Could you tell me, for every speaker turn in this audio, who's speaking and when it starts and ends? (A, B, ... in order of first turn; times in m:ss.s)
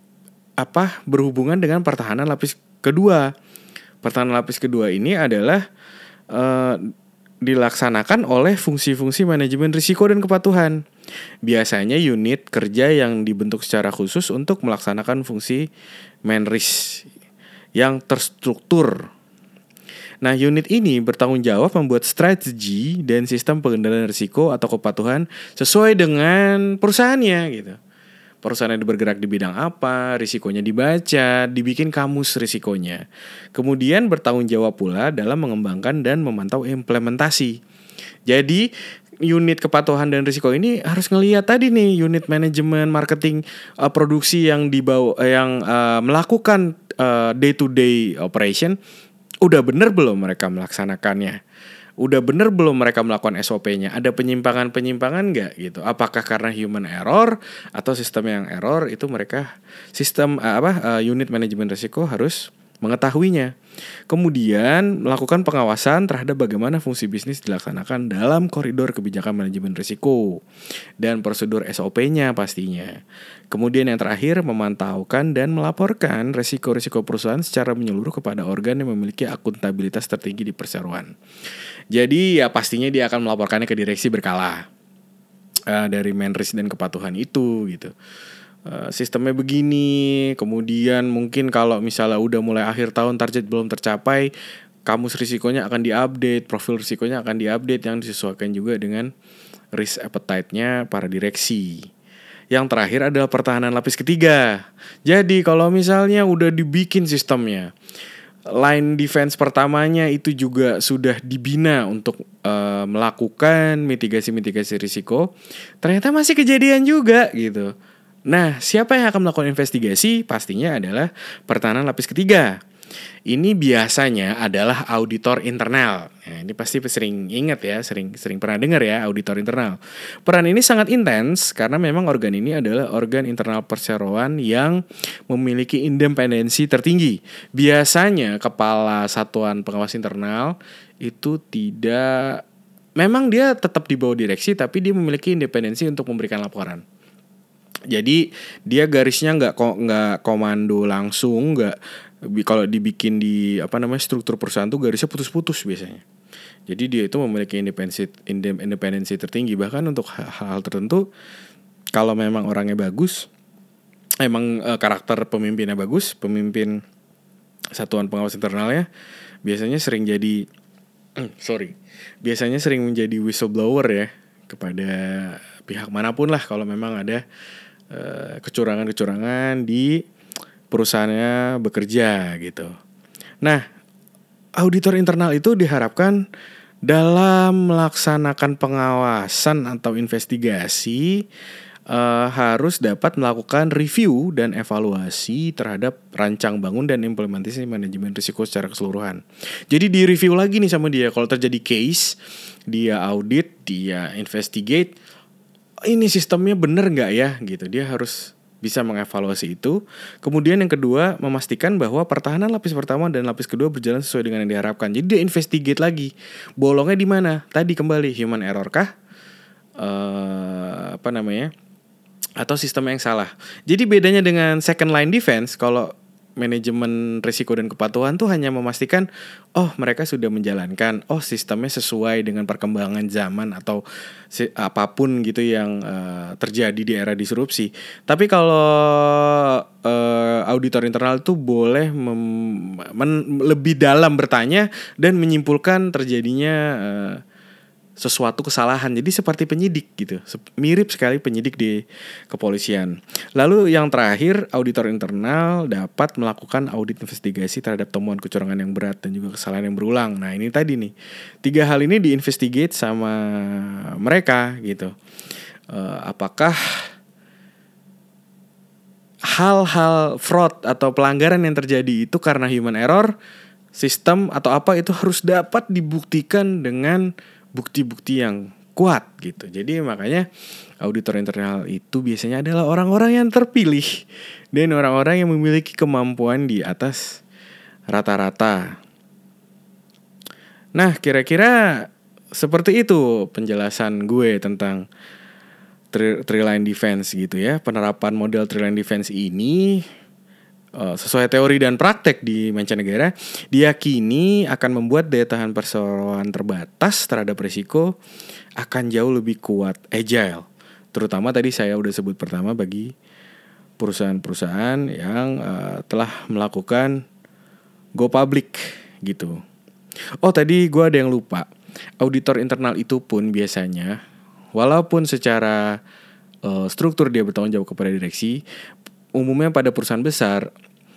0:00.6-0:03.3 A
0:04.0-0:05.6 A
0:06.3-0:06.9 A
0:07.4-0:10.8 A
0:11.5-0:15.7 A
0:16.3-0:17.1 A
0:17.8-0:19.1 A
0:20.2-0:27.8 A
0:28.4-0:33.0 A
0:33.6-0:37.6 A
0:38.3-0:38.7 A
0:39.3-0:48.8 A
0:49.4-0:51.4 A
0:52.0-1:03.5 A
1:04.1-1:10.4 A
1:11.0-1:21.1 A
1:21.9-1:24.7 A
1:25.7-1:27.9 A
1:28.7-1:34.3 A
1:34.9-1:39.1 A
1:39.7-1:41.9 A
1:42.5-1:47.7 A
1:48.5-1:55.3 A
1:55.8-1:57.7 A
1:58.3-2:02.6 A
2:03.3-2:22.4 A
2:23.0-2:26.8 A
2:27.9-2:31.8 A
2:32.3-2:36.0 A
2:36.7-2:41.1 A
2:42.0-2:43.3 A
2:44.2-2:46.8 A
2:47.8-2:48.9 A
2:49.4-2:50.5 A
2:51.2-2:57.2 A
2:57.9-3:00.0 A
3:00.7-3:02.7 A
3:04.6-3:06.2 A
3:06.9-3:11.2 A
3:11.9-3:22.2 A
3:22.7-3:24.9 A
3:25.8-3:38.9 A
3:39.8-3:41.5 A
3:42.4-4:07.2 A
4:08.0-4:20.9 A
4:21.4-4:24.9 A
4:25.7-4:26.9 A
4:29.3-4:33.1 A
4:33.8-4:40.3 A
4:40.8-4:44.0 A
4:44.5-4:47.2 A
4:47.9-4:48.8 A
4:50.8-4:54.9 A
4:55.9-4:59.9 A
5:00.8-5:07.9 A
5:08.6-5:12.9 A
5:13.8-5:17.0 A
5:18.0-5:19.4 A
5:20.2-5:21.5 A
5:22.0-5:24.0 A
5:24.6-5:25.8 A
5:26.4-5:28.4 A
5:29.2-5:30.5 A